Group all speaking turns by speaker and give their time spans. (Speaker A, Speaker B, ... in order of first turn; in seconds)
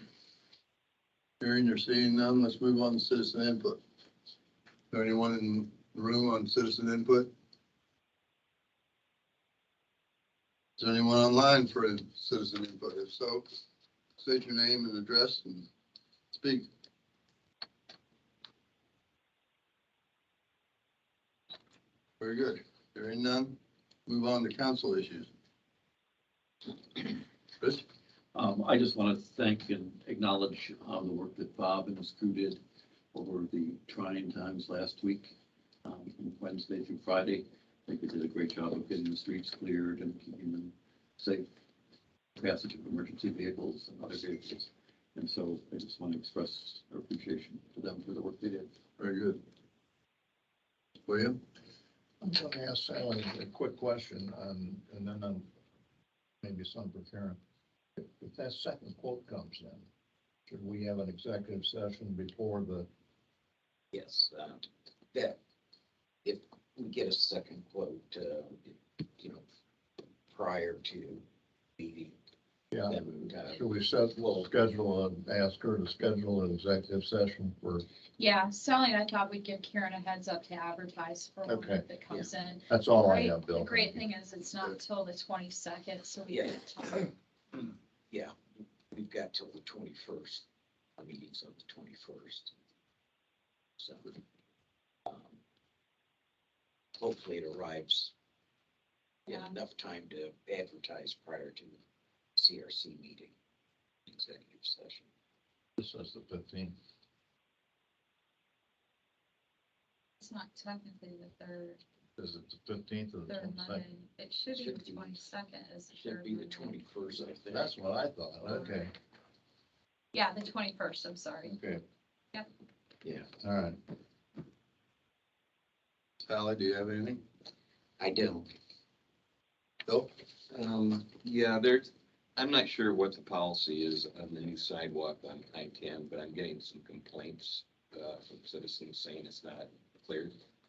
Speaker A: 1.4-3.8, 4.9-7.3, 10.8-13.4, 14.2-15.7, 16.3-16.7, 22.2-25.3, 27.6-27.8, 49.0-49.4, 51.1-51.4, 126.2-127.2
Speaker B: 28.3-32.6, 33.1-41.5, 42.4-48.7
Speaker C: 52.2-55.5, 56.4-57.4, 58.0-59.9, 60.5-62.9, 72.7-77.8, 81.5-81.8, 82.7-84.0, 105.8-106.8, 112.2-113.8, 117.5-118.9, 121.5-121.8, 123.4-123.8
Speaker D: 63.9-65.4, 66.2-69.4, 70.3-71.2, 71.8-72.1, 72.9-73.6, 86.3-86.6, 88.9-90.5, 91.0-92.5, 93.8-94.1, 95.1-95.4, 97.0-98.1, 99.3-101.8, 102.3-103.3, 104.1-105.0, 114.5-115.2, 115.9-117.7, 123.0-123.3, 128.0-128.5
Speaker E: 78.2-87.1, 99.3-99.5, 110.2-111.8, 113.3-116.8, 118.5-118.8, 120.1-121.6
Speaker F: 130.5-140.4